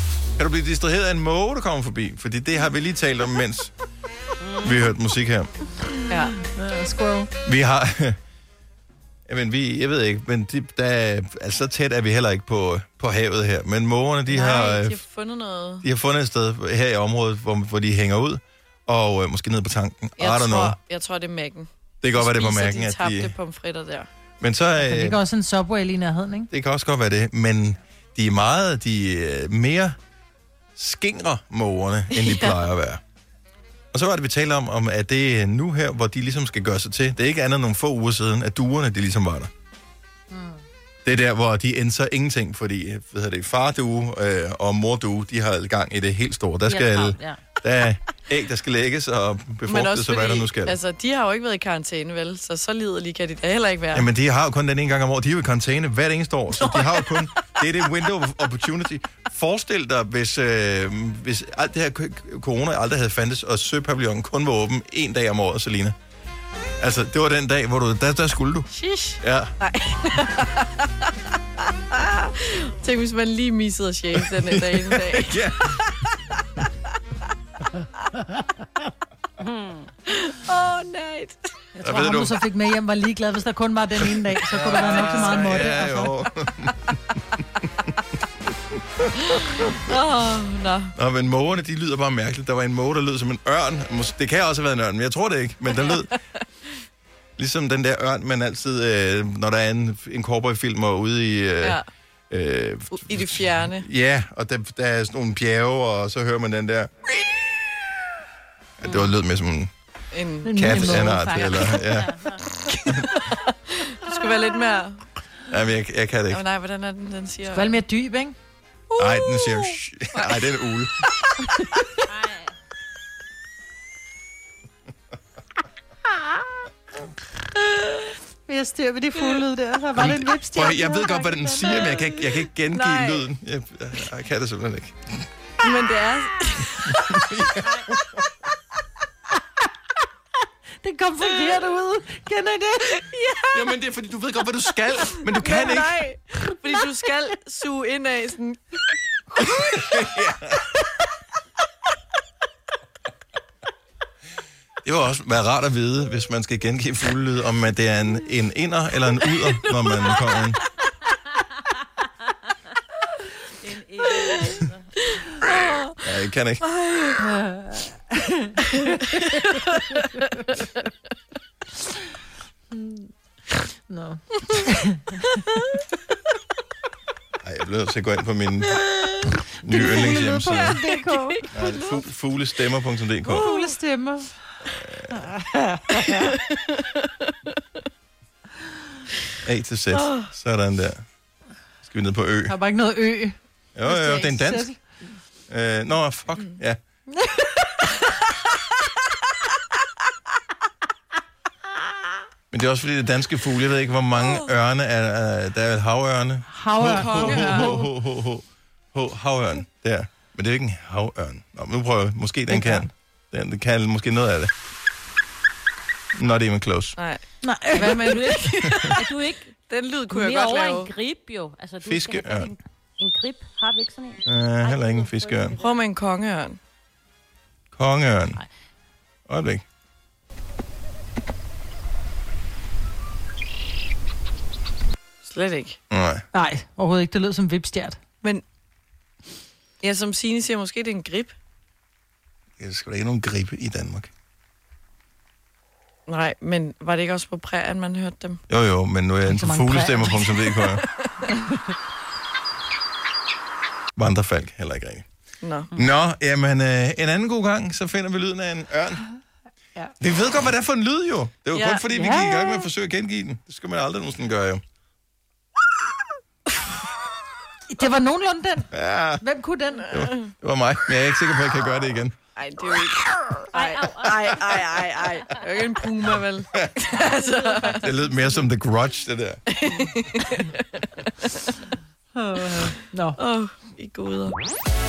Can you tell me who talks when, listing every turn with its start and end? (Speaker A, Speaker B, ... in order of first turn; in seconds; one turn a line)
Speaker A: 0.4-3.7
Speaker A: 4.6-5.5
Speaker B: 6.1-6.4
Speaker C: 6.4-7.3
Speaker A: 7.5-8.2
Speaker A: 9.3-15.0
Speaker B: 14.3-15.8
Speaker A: 15.8-20.8
Speaker B: 20.2-24.1
Speaker A: 22.0-23.3
Speaker A: 24.4-25.2
Speaker C: 24.8-26.5
Speaker A: 26.5-30.0
Speaker A: 30.8-33.0
Speaker B: 32.1-32.6
Speaker A: 33.9-39.5
Speaker C: 40.3-40.6
Speaker A: 41.0-50.8
Speaker D: 46.7-47.4
Speaker B: 49.7-54.1
Speaker A: 53.9-66.0
Speaker B: 56.6-57.2
Speaker A: 66.8-68.7
Speaker B: 68.7-71.1
Speaker A: 69.2-69.5
Speaker B: 71.9-76.0
Speaker A: 74.2-75.8
Speaker D: 79.5-79.8
Speaker B: 80.1-81.5
Speaker C: 81.8-86.1
Speaker A: 81.8-82.4
Speaker A: 84.0-87.2
Speaker A: 89.0-89.5
Speaker B: 89.3-90.9
Speaker A: 91.0-96.2
Speaker A: 97.4-101.8
Speaker A: 102.3-106.9
Speaker B: 102.9-103.9
Speaker A: 108.8-109.7
Speaker D: 108.8-109.1
Speaker B: 110.1-111.9
Speaker C: 110.4-111.8
Speaker A: 110.5-112.2
Speaker D: 111.8-112.4
Speaker B: 112.5-115.0
Speaker A: 115.5-116.4
Speaker B: 116.3-117.8
Speaker C: 117.5-118.4
Speaker B: 118.9-120.7
Speaker A: 119.0-121.1
Speaker B: 121.4-121.8
Speaker D: 122.1-122.5
Speaker B: 127.6-128.1
Speaker C: 128.5-132.0
Speaker A: 130.0-135.3
Speaker B: 131.9-133.3
Speaker B: 135.6-137.0
Speaker A: 136.9-138.0
Speaker C: 140.8-143.0
Speaker B: 141.3-141.7
Speaker B: 142.9-143.6
Speaker A: 143.5-146.0
Speaker B: 145.2-148.6
Speaker A: 149.4-150.6
Speaker A: 154.8-160.6
Speaker B: 159.3-160.8
Speaker D: 163.6-164.9
Speaker B: 164.1-166.0
Speaker A: 166.0-166.6
Speaker B: 166.6-167.3
Speaker C: 167.2-169.5
Speaker B: 168.7-170.5
Speaker C: 170.0-170.3
Speaker C: 172.7-173.1
Speaker C: 173.9-175.4
Speaker A: 177.4-178.8
Speaker B: 178.8-182.0
Speaker A: 179.6-180.8
Speaker C: 179.7-181.4
Speaker A: 181.5-183.5
Speaker B: 183.3-183.8
Speaker C: 183.3-184.4
Speaker A: 184.7-185.3
Speaker C: 185.1-186.3
Speaker B: 185.9-187.3
Speaker A: 189.4-191.0
Speaker B: 189.9-190.3
Speaker A: 191.8-192.6
Speaker C: 192.5-194.8
Speaker A: 193.8-194.7
Speaker A: 195.5-196.8
Speaker C: 197.1-198.0
Speaker A: 202.5-214.5
Speaker B: 204.2-204.5
Speaker C: 206.5-207.8
Speaker B: 206.8-207.9
Speaker C: 212.5-212.9
Speaker A: 216.2-217.0
Speaker B: 217.0-220.9
Speaker C: 217.4-218.3
Speaker D: 217.9-219.5
Speaker D: 220.1-225.8
Speaker A: 221.8-222.5
Speaker A: 224.2-225.6
Speaker B: 225.6-226.6
Speaker A: 227.7-228.4
Speaker A: 229.3-229.6
Speaker B: 235.2-235.8
Speaker A: 235.9-236.2
Speaker C: 236.3-238.0
Speaker B: 239.8-241.4
Speaker A: 242.6-244.1
Speaker B: 246.1-248.4
Speaker A: 248.5-250.8
Speaker C: 249.3-250.5
Speaker B: 250.6-251.3
Speaker A: 254.0-255.1
Speaker B: 255.4-255.7
Speaker A: 255.8-259.0
Speaker A: 260.0-264.6
Speaker B: 261.5-261.8
Speaker C: 261.9-262.7
Speaker C: 267.7-269.9
Speaker A: 268.7-269.2
Speaker A: 269.9-272.1
Speaker B: 269.9-270.3
Speaker B: 272.4-277.9
Speaker D: 273.5-274.7
Speaker D: 277.0-277.6
Speaker A: 277.7-279.4
Speaker B: 279.5-280.6
Speaker C: 282.2-283.2
Speaker B: 283.2-284.4